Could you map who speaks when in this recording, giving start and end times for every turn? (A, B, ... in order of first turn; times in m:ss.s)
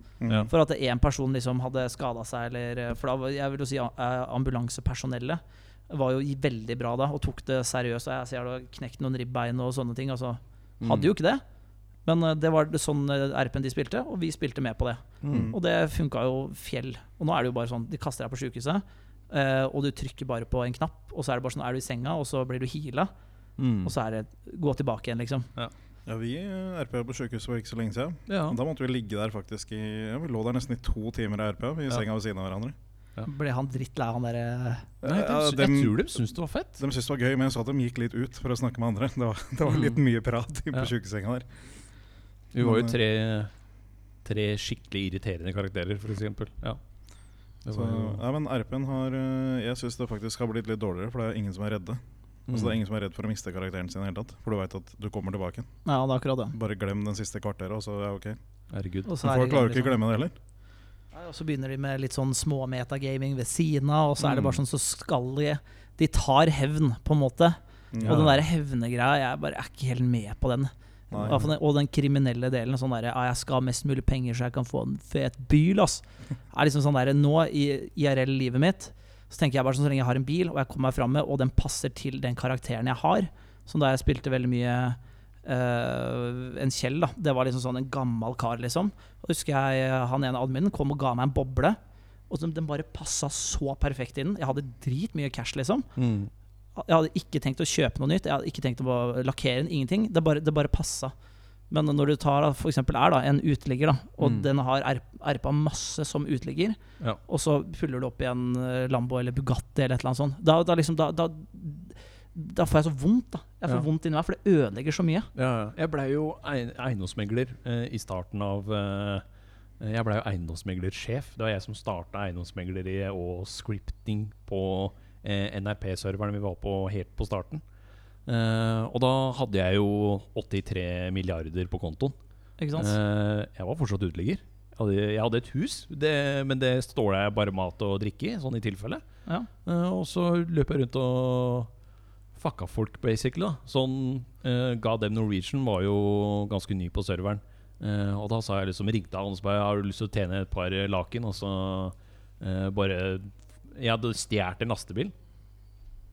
0:00.2-0:00.5 A
0:00.5-0:11.4 B
0:10.8-0:11.1 C
0:12.1-0:23.1 B
0:15.2-0:15.5 C
0:15.3-0:15.6 A
0:23.6-0:23.9 C
0:23.8-0:25.5 B
0:26.1-0:32.8 A
0:28.3-0:28.6 C
0:33.2-0:34.9 B
0:35.0-0:36.0 A
0:35.0-0:36.8 C
0:36.8-0:41.5 A
0:39.7-0:40.0 C
0:42.5-0:43.5 C
0:42.6-0:43.0 A
0:44.2-0:46.8 C
0:47.6-0:48.2 C
0:47.7-0:55.7 A
0:52.5-0:52.8 C
0:55.8-0:56.6 B
0:56.5-0:58.4 A
0:58.7-0:59.1 C
0:59.1-1:00.0 B
0:59.2-1:00.3 A
1:01.1-1:31.8 B
1:04.2-1:04.6 C
1:07.9-1:08.3 A
1:08.0-1:08.4 C
1:11.1-1:11.5 A
1:32.3-1:35.9 B
1:36.0-1:36.3 C
1:36.8-1:41.1 B
1:41.7-1:55.3 B
1:44.2-1:44.5 C
1:55.4-1:59.2 C
1:59.8-2:07.6 C
2:08.3-2:12.2 C
2:12.6-2:13.0 B
2:12.8-2:19.0 C
2:19.6-2:21.7 C
2:22.4-2:35.1 C